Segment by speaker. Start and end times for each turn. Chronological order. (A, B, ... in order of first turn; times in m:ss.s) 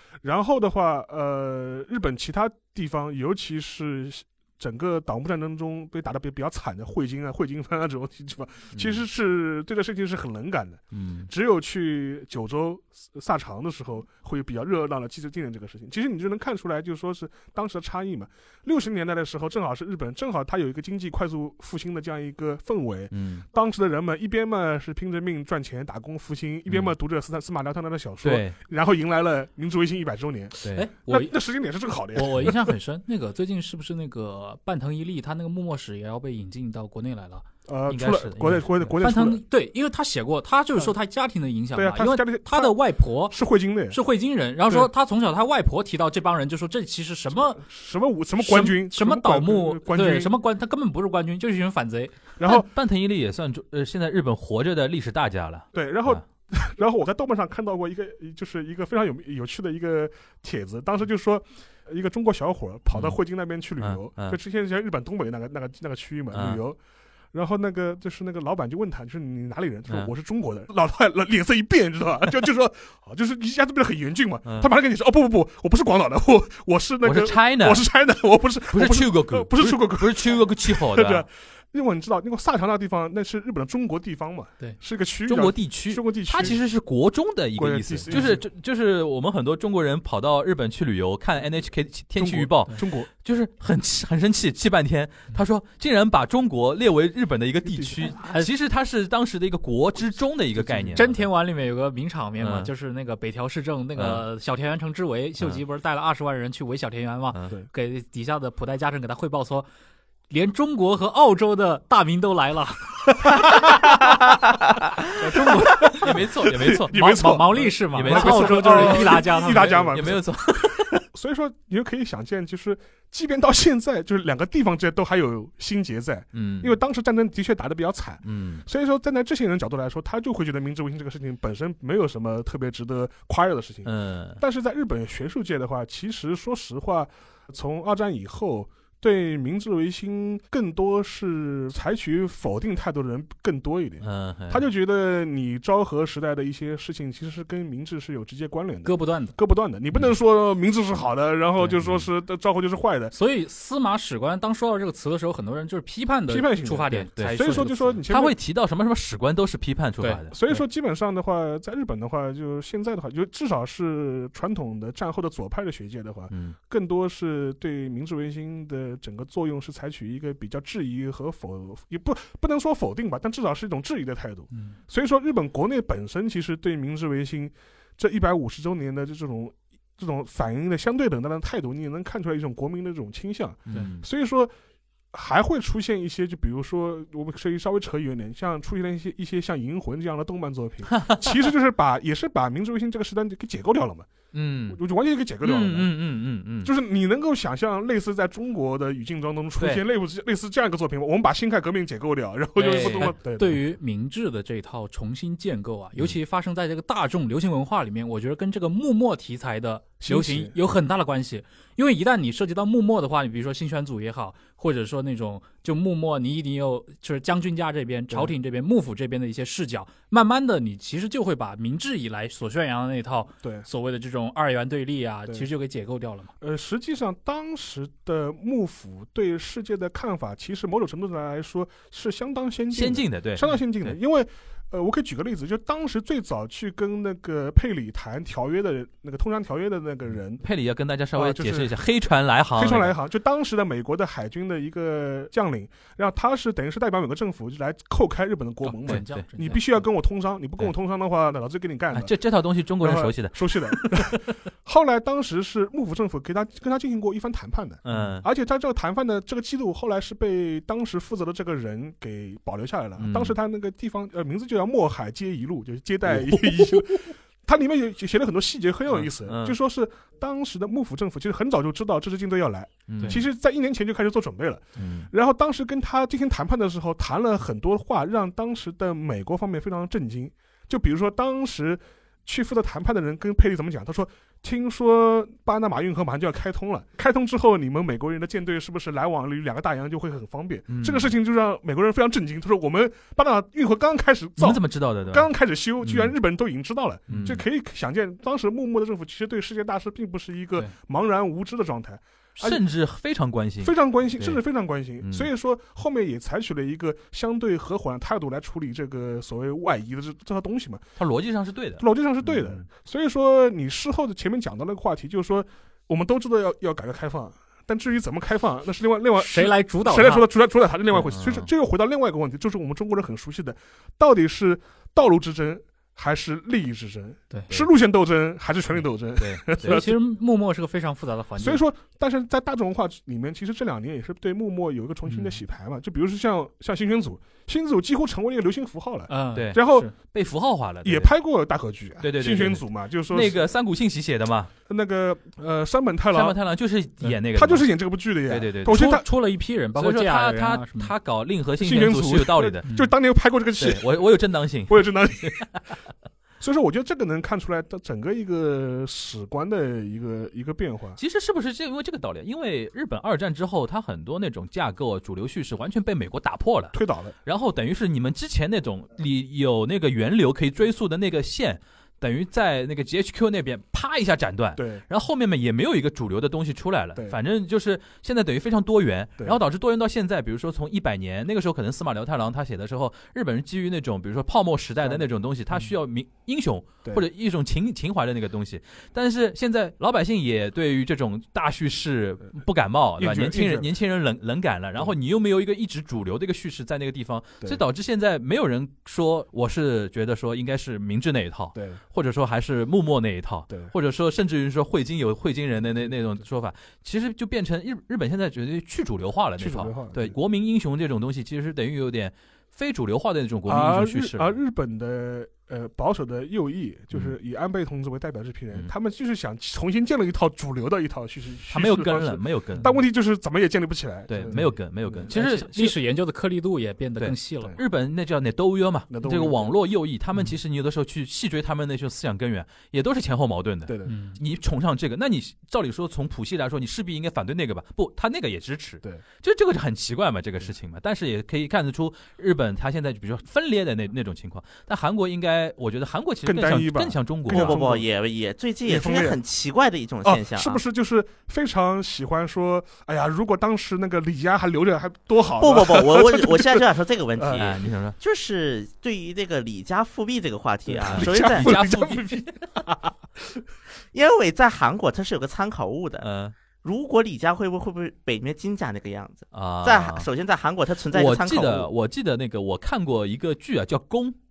0:00.2-0:32.6 A
0:08.7-0:09.0 B
0:10.9-0:11.3 B
0:23.1-0:23.4 B
0:26.7-0:26.9 B
0:28.2-0:28.6 B
0:30.7-0:31.3 C
0:32.1-0:37.4 C
0:37.7-0:39.4 A
0:37.9-0:38.9 B
0:39.0-0:43.4 C
0:41.7-0:42.8 A
0:43.3-0:44.0 A
0:43.9-0:47.6 C
0:47.3-0:50.3 A
0:48.4-0:52.2 C
0:52.4-0:52.7 A
0:52.4-0:56.2 B
0:55.7-1:06.8 A
1:02.9-1:03.2 B
1:03.8-1:04.4 B
1:06.3-1:06.6 B
1:07.3-1:26.6 A
1:14.4-1:14.7 B
1:17.0-1:17.8 B
1:18.7-1:21.2 B
1:25.2-1:41.2 B
1:27.6-1:28.4 A
1:28.1-1:28.4 C
1:32.2-1:33.1 A
1:37.6-1:38.1 A
1:38.2-1:38.5 C
1:40.5-1:41.1 A
1:40.9-1:49.7 C
1:42.4-1:42.7 B
1:43.9-1:44.2 B
1:50.3-1:54.0 C
1:55.1-2:00.2 C
1:55.2-2:33.1 A
1:55.8-2:01.0 B
2:06.3-2:06.8 B
2:08.2-2:08.6 B
2:13.8-2:14.4 B
2:24.0-2:24.6 B
2:28.8-2:29.3 C
2:31.7-2:32.1 B
2:33.1-2:38.0 C
2:36.3-2:38.4 A
2:37.1-2:40.3 B
2:40.0-2:40.6 C
2:40.3-3:04.5 A
2:46.3-2:46.6 B
3:03.7-3:04.0 B
3:05.1-3:14.1 A
3:10.9-3:11.4 B
3:14.3-3:14.8 B
3:14.7-3:15.9 A
3:15.4-3:16.7 B
3:16.6-3:23.6 A
3:19.6-3:19.8 B
3:22.6-3:46.3 C
3:22.7-3:23.1 B
3:30.0-3:30.5 A
3:38.1-3:38.3 A
3:43.4-3:43.7 A
3:46.4-4:00.4 A
3:52.7-3:54.0 B
4:00.4-4:02.9 B
4:01.2-4:01.7 A
4:02.6-4:12.1 A
4:08.6-4:09.8 C
4:08.8-4:09.2 B
4:11.9-4:14.2 B
4:12.8-5:02.6 A
4:17.8-4:18.2 B
4:23.0-4:23.4 B
4:26.1-4:26.8 B
4:28.9-4:29.6 B
4:32.9-4:33.2 B
4:34.8-4:35.1 B
4:50.7-4:51.1 B
4:54.4-4:55.3 B
4:55.8-4:56.1 B
4:57.1-4:57.4 B
5:02.4-5:04.4 B
5:03.6-5:10.8 A
5:05.0-5:05.3 B
5:11.0-5:12.6 B
5:11.8-5:30.0 A
5:19.2-5:20.2 C
5:21.0-5:21.5 B
5:27.3-5:27.6 C
5:29.2-5:29.8 B
5:29.6-5:31.6 C
5:31.4-5:39.9 A
5:35.1-5:35.4 C
5:39.1-5:39.9 C
5:39.3-5:41.1 B
5:40.8-5:43.4 A
5:42.0-5:44.5 B
5:44.7-5:46.4 A
5:46.1-5:47.7 B
5:47.3-5:49.0 A
5:48.3-5:49.0 B
5:48.7-5:50.9 C
5:49.8-5:52.6 B
5:51.6-5:53.9 A
5:53.6-5:55.6 B
5:54.7-5:55.5 A
5:56.4-6:01.0 A
6:01.0-6:54.4 B
6:06.7-6:07.1 A
6:14.6-6:14.8 A
6:24.8-6:25.1 A
6:33.0-6:33.7 A
6:41.5-6:41.8 A
6:49.4-6:50.2 A
6:53.4-7:05.1 A
7:01.5-7:02.7 B
7:04.1-7:05.8 B
7:05.1-7:07.6 C
7:07.0-7:27.6 B
7:08.9-7:09.5 A
7:13.6-7:13.9 A
7:13.8-7:14.2 C
7:26.2-7:27.9 A
7:27.3-7:30.6 D
7:28.6-7:29.2 A
7:30.0-7:36.6 A
7:35.4-7:41.5 D
7:37.2-7:37.5 A
7:37.4-7:38.0 B
7:40.6-7:43.4 A
7:40.9-7:42.4 B
7:43.9-7:46.1 D
7:46.0-7:46.3 B
7:46.6-7:51.7 D
7:49.3-7:50.1 B
7:50.9-7:54.2 B